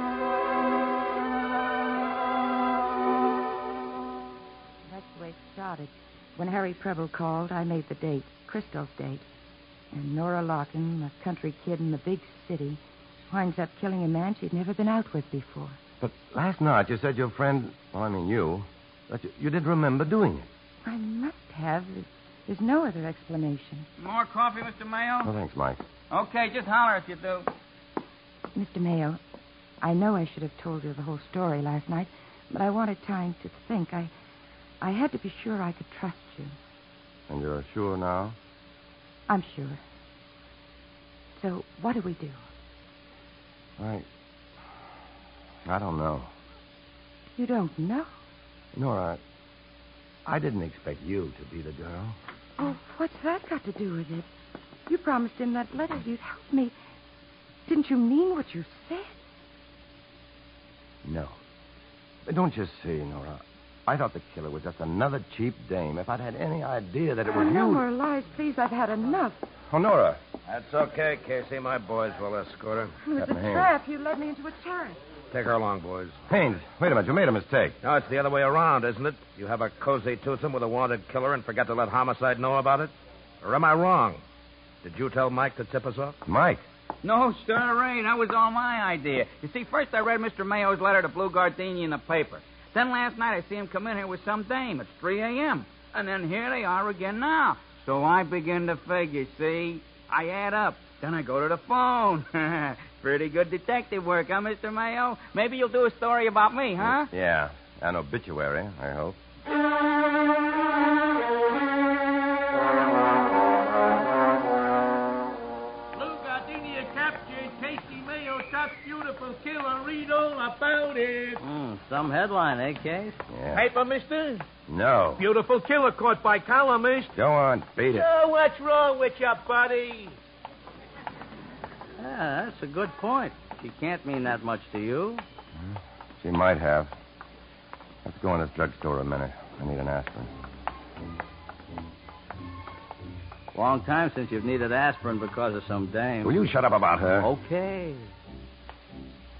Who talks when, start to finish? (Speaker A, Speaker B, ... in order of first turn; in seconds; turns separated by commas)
Speaker A: 4.8-9.2, Speaker A: 9.9-15.8, Speaker B: 16.0-20.5, Speaker A: 20.8-23.9, Speaker C: 24.0-25.3, Speaker B: 25.2-25.8, Speaker C: 26.1-27.5, Speaker A: 28.5-29.2, Speaker A: 29.8-34.1, Speaker A: 34.8-36.5, Speaker B: 37.3-38.4, Speaker A: 39.3-39.8, Speaker A: 41.4-42.4, Speaker B: 43.8-44.1, Speaker B: 45.6-46.3, Speaker A: 47.4-48.1, Speaker B: 48.7-49.2, Speaker B: 50.2-52.1, Speaker A: 52.6-54.3, Speaker A: 54.9-56.8, Speaker A: 57.6-59.1, Speaker B: 61.0-61.4, Speaker B: 62.2-67.8, Speaker A: 67.3-69.4, Speaker B: 69.7-70.2, Speaker D: 70.5-73.0, Speaker A: 73.1-75.0, Speaker B: 73.2-73.7, Speaker D: 75.3-76.2, Speaker B: 76.3-77.8, Speaker D: 77.8-84.2, Speaker D: 84.8-86.2, Speaker B: 86.2-86.6, Speaker C: 87.0-107.1, Speaker B: 106.8-109.2, Speaker E: 115.9-121.4, Speaker F: 121.4-123.2, Speaker B: 123.3-123.7, Speaker E: 123.5-124.4, Speaker B: 124.7-125.2, Speaker E: 125.2-127.1, Speaker B: 127.1-128.1, Speaker E: 127.9-130.2, Speaker F: 132.0-135.2, Speaker B: 135.6-136.9, Speaker B: 138.0-140.3, Speaker F: 143.5-146.5, Speaker B: 146.2-147.3, Speaker F: 147.2-148.1